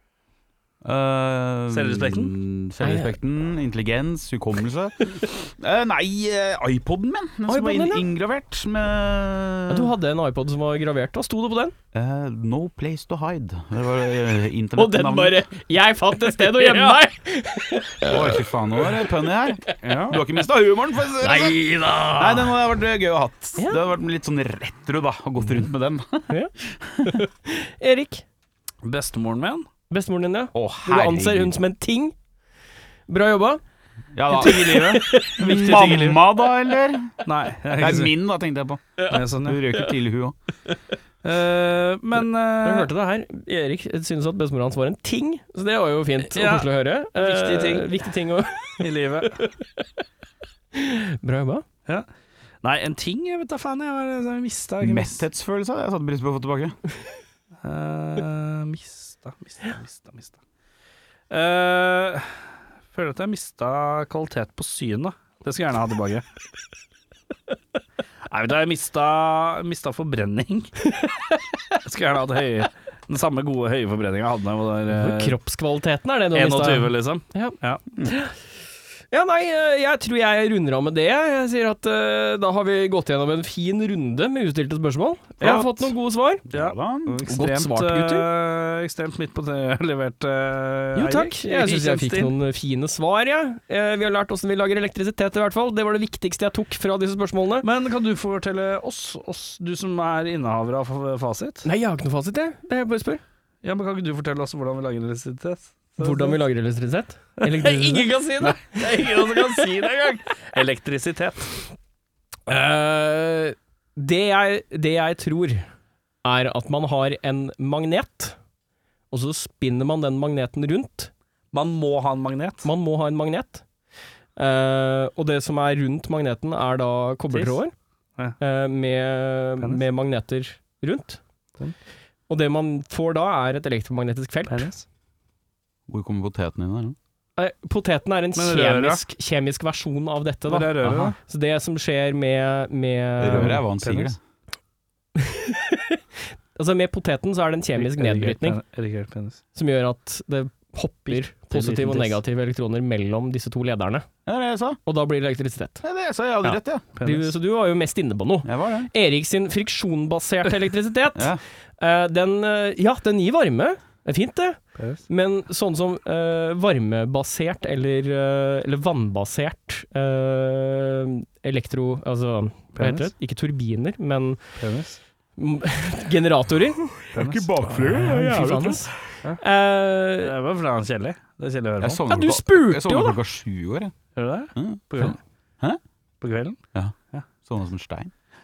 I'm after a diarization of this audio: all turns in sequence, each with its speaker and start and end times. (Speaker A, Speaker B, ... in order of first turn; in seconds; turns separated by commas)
Speaker A: 0.8-9.9, Speaker B: 1.7-2.3, Speaker C: 2.8-3.1, Speaker C: 7.5-8.0, Speaker C: 9.7-11.7, Speaker A: 11.9-15.4, Speaker C: 14.8-19.1, Speaker B: 16.4-17.0, Speaker A: 18.0-27.1, Speaker B: 19.8-20.2, Speaker C: 21.2-22.6, Speaker C: 27.0-28.2, Speaker B: 28.8-29.7, Speaker C: 29.9-32.1, Speaker A: 30.6-31.5, Speaker C: 33.1-33.6, Speaker A: 34.1-37.1, Speaker B: 34.3-36.2, Speaker C: 34.3-35.8, Speaker B: 37.2-38.1, Speaker A: 37.8-40.4, Speaker B: 39.1-39.6, Speaker B: 41.2-42.9, Speaker C: 42.6-49.8, Speaker B: 46.2-48.0, Speaker B: 48.8-49.5, Speaker C: 50.7-51.6, Speaker B: 52.6-55.2, Speaker A: 54.8-56.8, Speaker B: 57.6-60.4, Speaker B: 61.3-66.2, Speaker B: 68.3-70.7, Speaker C: 71.0-71.3, Speaker B: 71.8-75.4, Speaker C: 74.9-78.3, Speaker B: 76.3-77.8, Speaker C: 79.1-86.4, Speaker A: 85.4-85.9, Speaker A: 86.5-87.2, Speaker B: 86.5-92.3, Speaker C: 87.3-88.3, Speaker C: 91.0-97.7, Speaker B: 97.6-101.7, Speaker C: 101.6-103.2, Speaker B: 103.6-106.4, Speaker C: 106.0-110.0, Speaker B: 107.4-111.5, Speaker C: 112.5-115.6, Speaker C: 116.2-118.4, Speaker C: 119.1-121.1, Speaker B: 121.5-122.7, Speaker C: 122.6-123.6, Speaker C: 124.4-127.7, Speaker B: 127.3-127.6, Speaker C: 128.4-131.2, Speaker C: 132.3-134.7, Speaker B: 134.5-134.8, Speaker A: 135.9-136.9, Speaker C: 137.4-143.6, Speaker B: 138.3-139.0, Speaker B: 140.4-141.2, Speaker A: 143.2-144.2, Speaker B: 143.4-144.1, Speaker C: 145.2-148.6, Speaker B: 147.7-149.4, Speaker C: 149.6-154.1, Speaker B: 151.1-152.2, Speaker A: 154.2-154.8, Speaker C: 154.9-155.8, Speaker A: 155.8-156.9, Speaker C: 156.4-174.4, Speaker B: 157.0-157.3, Speaker A: 158.4-158.9, Speaker A: 161.2-161.4, Speaker B: 164.8-165.0, Speaker B: 172.7-173.1, Speaker B: 174.6-175.0, Speaker C: 175.4-177.0, Speaker A: 177.1-178.9, Speaker B: 177.1-177.4, Speaker C: 177.8-180.3, Speaker B: 180.2-182.0, Speaker A: 181.8-183.9, Speaker C: 182.1-183.2, Speaker B: 184.1-185.2, Speaker A: 184.6-185.1, Speaker B: 186.2-186.6, Speaker A: 186.7-188.1